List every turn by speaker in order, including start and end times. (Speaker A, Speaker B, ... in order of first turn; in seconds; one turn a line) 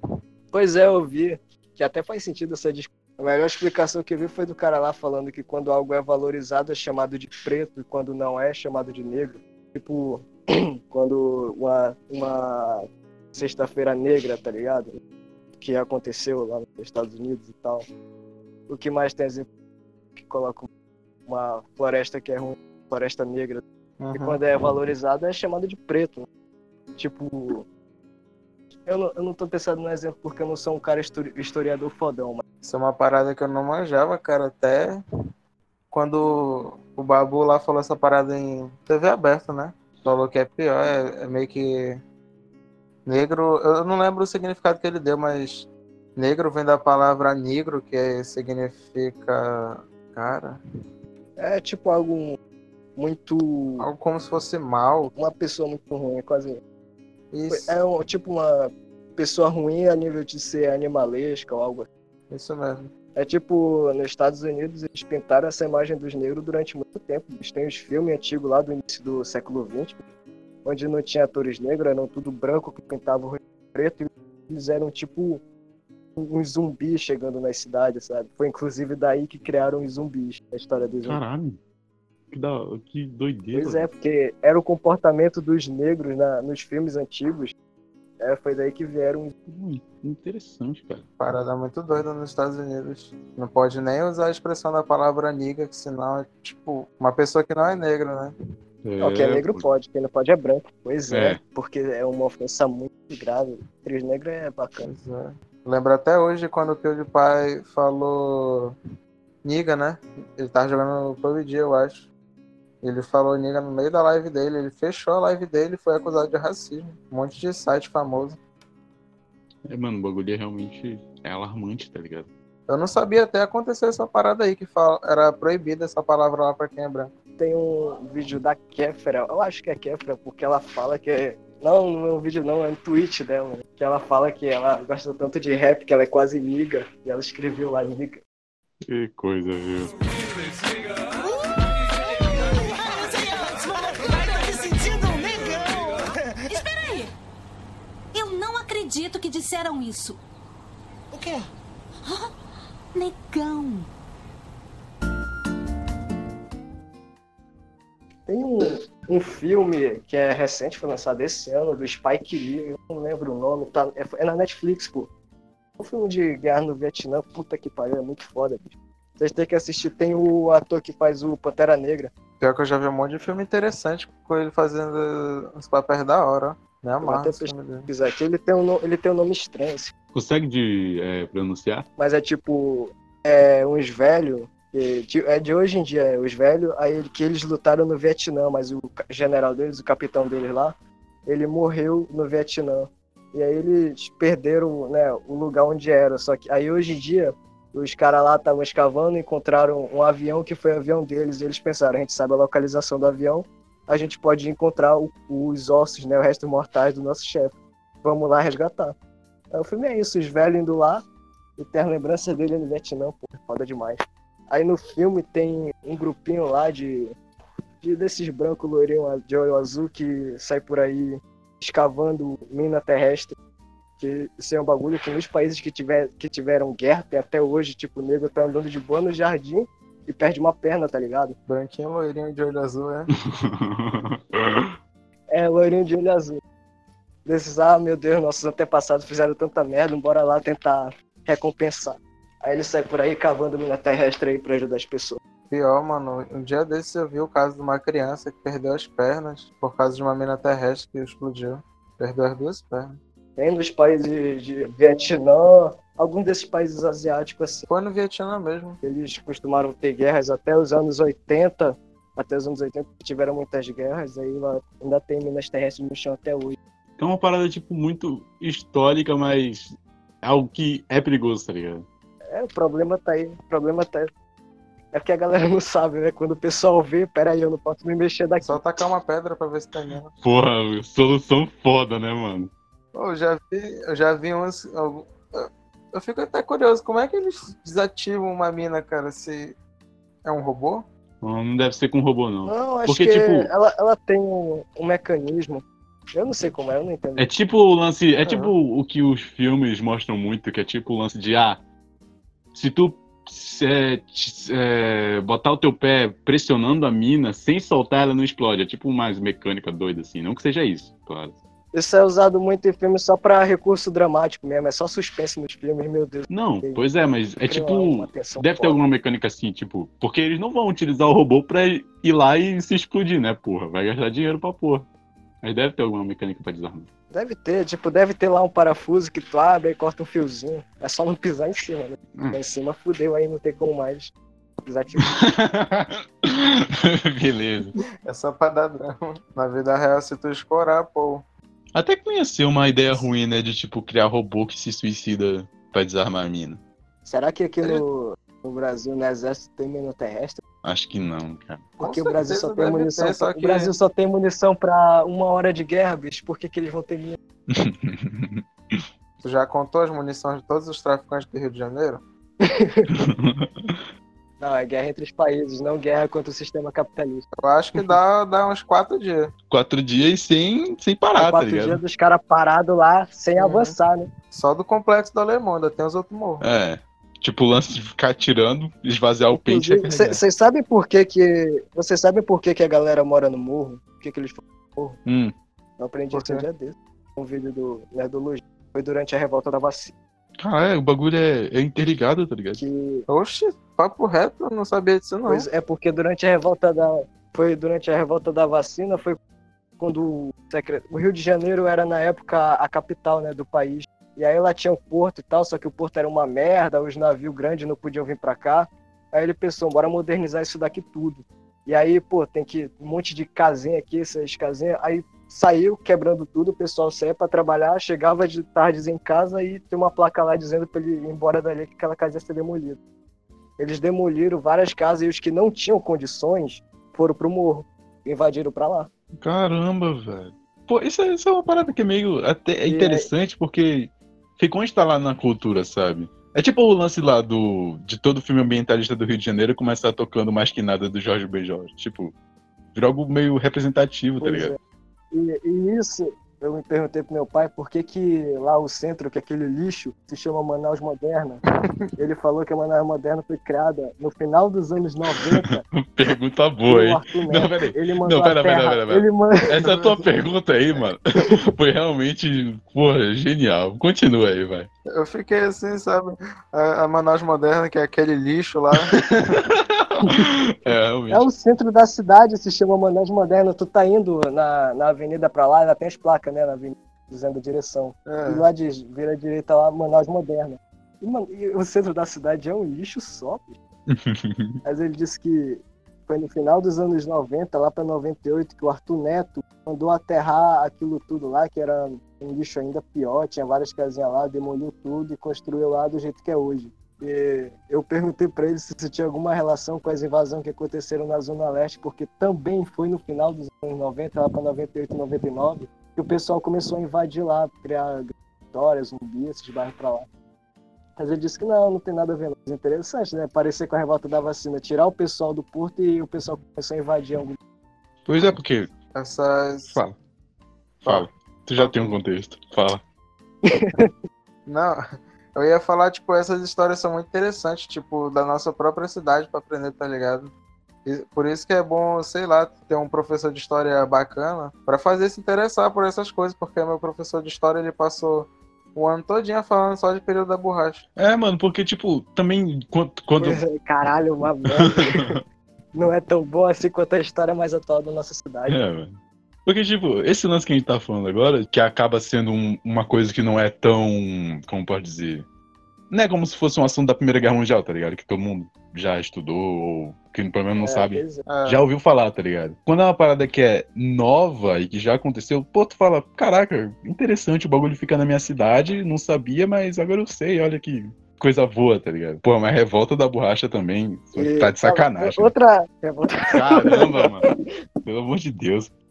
Speaker A: 0.5-14.9
Speaker A: 15.6-17.9
Speaker A: 18.7-19.5
Speaker A: 20.2-20.7
Speaker A: 21.3-23.6
Speaker B: 24.0-24.4
Speaker A: 24.1-26.3
Speaker A: 27.0-27.6
Speaker A: 28.9-32.4
Speaker B: 32.6-35.0
Speaker B: 35.9-42.0
Speaker B: 43.0-50.6
Speaker A: 51.4-52.4
Speaker A: 53.0-53.9
Speaker B: 53.8-55.1
Speaker A: 55.1-56.6
Speaker B: 57.3-57.8
Speaker A: 57.5-61.9
Speaker B: 62.3-62.9
Speaker A: 63.1-70.0
Speaker A: 70.6-75.4
Speaker A: 76.2-81.2
Speaker C: 81.0-81.6
Speaker C: 82.3-83.9
Speaker A: 83.5-87.5
Speaker A: 88.2-89.3
Speaker C: 89.5-91.0
Speaker B: 91.2-98.3
Speaker C: 98.8-99.7
Speaker A: 99.0-104.9
Speaker C: 101.1-101.4
Speaker B: 104.8-108.8
Speaker B: 109.4-112.1
Speaker B: 112.8-118.4
Speaker C: 119.7-122.3
Speaker B: 122.7-127.1
Speaker A: 127.4-138.2
Speaker C: 138.9-139.9
Speaker D: 142.3-145.6
Speaker D: 146.5-147.1
Speaker D: 148.1-150.2
Speaker D: 152.0-152.3
Speaker D: 152.9-153.9
Speaker A: 158.3-165.1
Speaker A: 165.8-172.1
Speaker B: 172.4-177.9
Speaker A: 177.0-179.9
Speaker C: 180.1-181.9
Speaker A: 182.0-190.7
Speaker A: 191.3-208.9
Speaker A: 209.5-211.0
Speaker A: 211.6-217.1
Speaker A: 217.8-223.3
Speaker A: 224.0-231.3
Speaker B: 231.5-233.1
Speaker C: 233.3-234.8
Speaker A: 235.3-236.4
Speaker A: 237.2-245.2
Speaker B: 245.5-253.0
Speaker A: 253.4-257.7
Speaker B: 257.7-258.8
Speaker A: 258.8-266.6
Speaker C: 267.0-271.9
Speaker A: 272.3-274.1
Speaker A: 274.9-278.6
Speaker B: 278.4-280.1
Speaker C: 280.2-282.5
Speaker B: 282.9-289.6
Speaker B: 290.2-290.9
Speaker C: 291.2-293.5
Speaker A: 292.4-295.6
Speaker A: 296.1-297.3
Speaker C: 297.2-301.6
Speaker B: 298.2-298.5
Speaker C: 302.5-311.4
Speaker A: 311.7-316.8
Speaker C: 316.3-324.9
Speaker A: 317.5-318.8
Speaker C: 325.4-326.9
Speaker A: 327.1-334.1
Speaker A: 334.6-335.1
Speaker C: 335.0-337.7
Speaker B: 338.1-341.2
Speaker C: 341.7-346.6
Speaker A: 347.0-350.4
Speaker C: 350.6-351.7
Speaker A: 351.8-357.2
Speaker B: 351.8-353.7
Speaker C: 357.5-358.8
Speaker B: 359.2-362.0
Speaker A: 362.4-362.9
Speaker C: 362.9-363.8
Speaker A: 364.4-367.2
Speaker B: 367.4-369.3
Speaker C: 369.5-371.8
Speaker A: 371.1-374.1
Speaker B: 373.4-373.8
Speaker B: 374.3-376.4
Speaker C: 376.4-380.2
Speaker A: 379.3-385.0
Speaker C: 385.1-385.3
Speaker A: 385.8-389.9
Speaker B: 386.1-386.4
Speaker C: 390.4-392.6
Speaker A: 392.6-393.1
Speaker B: 393.1-395.5
Speaker A: 395.2-399.2
Speaker A: 399.8-422.8
Speaker A: 423.6-428.9
Speaker C: 429.2-442.1
Speaker A: 432.7-433.1
Speaker C: 442.7-444.5
Speaker A: 444.2-444.6
Speaker A: 445.1-451.4
Speaker A: 452.0-455.6
Speaker C: 455.7-464.7
Speaker A: 456.7-459.5
Speaker B: 459.6-460.1
Speaker B: 464.9-469.3
Speaker C: 468.9-471.3
Speaker A: 470.0-470.3
Speaker A: 471.1-483.6
Speaker B: 478.1-478.4
Speaker C: 483.9-484.6
Speaker A: 484.6-510.1
Speaker A: 511.0-517.4
Speaker C: 518.0-518.7
Speaker B: 518.9-519.8
Speaker B: 520.8-522.0
Speaker C: 520.8-522.8
Speaker A: 523.5-523.9
Speaker B: 524.5-524.8
Speaker B: 525.3-530.3
Speaker B: 530.9-540.8
Speaker C: 541.0-543.4
Speaker A: 543.2-545.1
Speaker C: 544.5-545.2
Speaker A: 545.7-548.6
Speaker C: 548.5-555.2
Speaker C: 555.9-575.3
Speaker A: 560.6-561.2
Speaker B: 561.2-561.7
Speaker A: 574.1-577.1
Speaker C: 576.3-577.3
Speaker C: 577.8-578.7